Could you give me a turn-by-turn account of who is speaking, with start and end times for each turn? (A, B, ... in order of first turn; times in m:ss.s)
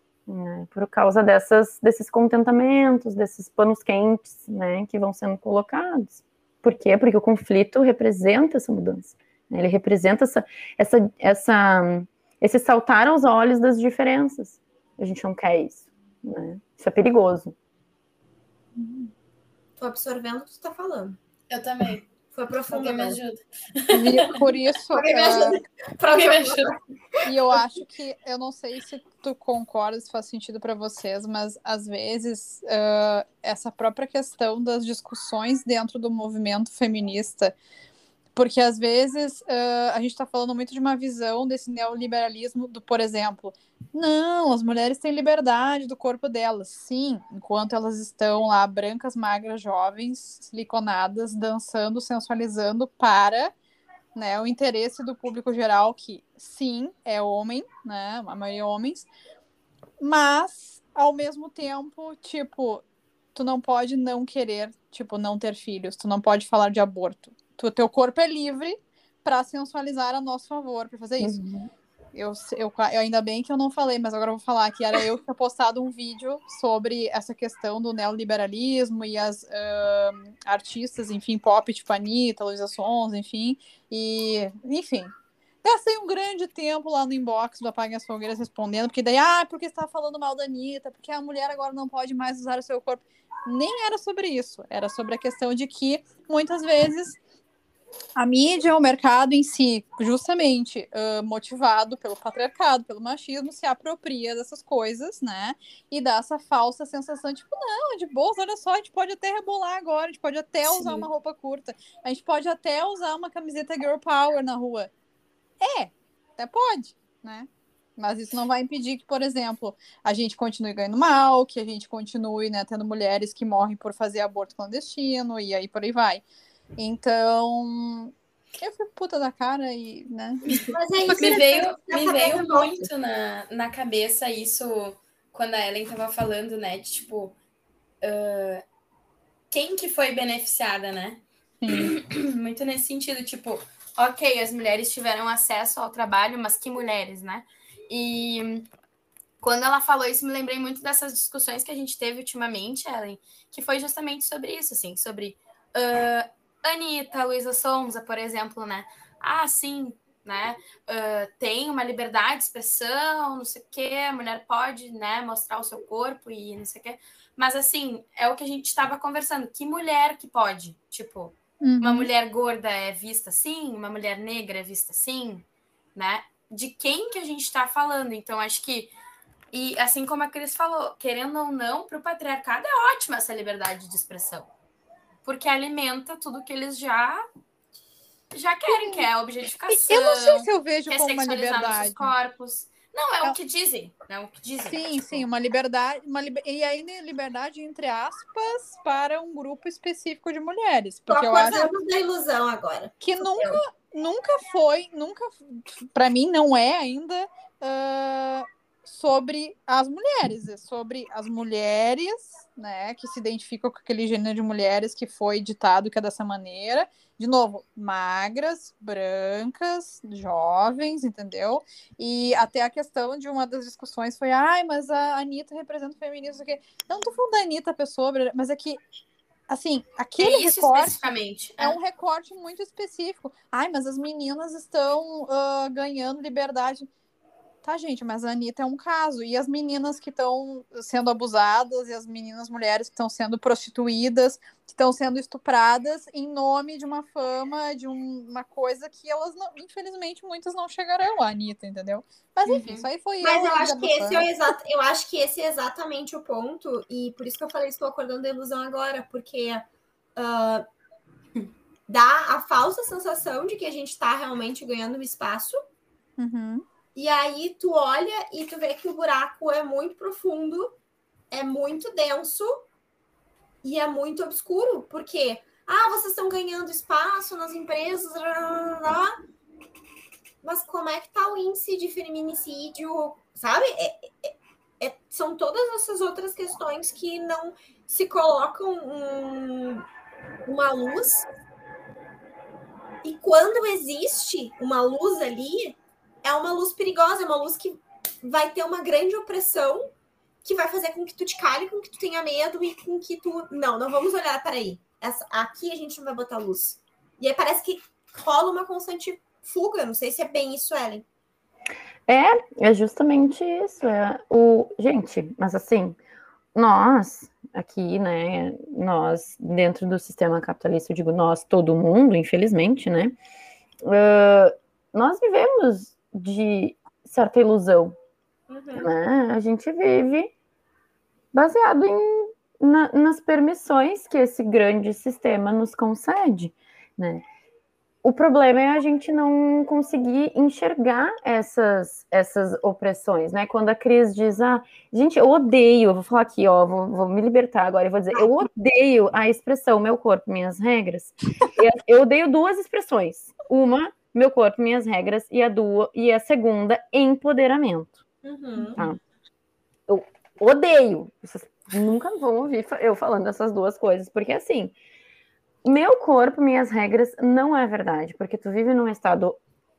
0:00.3-0:17.5 A
0:18.8-0:19.1 B
0:19.8-0:21.2 C
0:21.5-0:22.0 D
0:22.3-0:23.2 C
0:22.7-0:24.3 D
0:23.9-0:25.6 B
0:24.9-0:26.8 C
0:26.0-0:26.7 D
0:27.2-0:37.5 B
0:38.3-0:53.5 B
0:54.1-0:59.1 B
1:00.0-1:02.8 B
1:03.3-1:11.4 B
1:11.2-1:11.7 A
1:12.1-1:25.1 B
1:25.6-1:37.2 B
1:38.2-1:54.9 B
1:50.7-1:51.0 A
1:55.6-2:06.2 B
2:06.8-2:11.1 B
2:10.7-2:12.9 C
2:11.2-2:17.3 D
2:18.0-2:18.6 D
2:19.5-2:28.7 D
2:21.6-2:21.9 B
2:29.4-2:58.9 D
2:51.6-2:52.1 B
2:59.5-3:04.5 D
3:05.2-3:07.3 D
3:08.3-3:15.2 D
3:08.7-3:09.0 B
3:09.7-3:12.1 B
3:14.6-3:21.7 B
3:21.1-3:23.6 C
3:23.0-3:48.8 B
3:49.5-3:51.1 B
3:50.2-3:51.8 D
3:51.6-3:56.9 B
3:57.6-4:14.3 B
4:12.5-4:12.9 D
4:13.2-4:20.6 C
4:21.9-4:25.6 C
4:26.2-4:26.6 B
4:26.9-4:30.8 C
4:31.3-4:32.7 C
4:33.6-4:39.1 C
4:40.4-4:49.8 C
4:50.4-4:51.2 C
4:53.0-4:59.9 C
5:00.4-5:11.0 C
5:12.1-5:16.0 A
5:16.5-5:23.1 A
5:23.8-5:27.9 A
5:28.5-5:28.9 C
5:28.8-5:30.3 A
5:31.3-5:37.2 A
5:38.0-5:58.0 A
5:58.2-5:58.8 C
5:59.9-6:04.7 A
6:05.6-6:09.4 A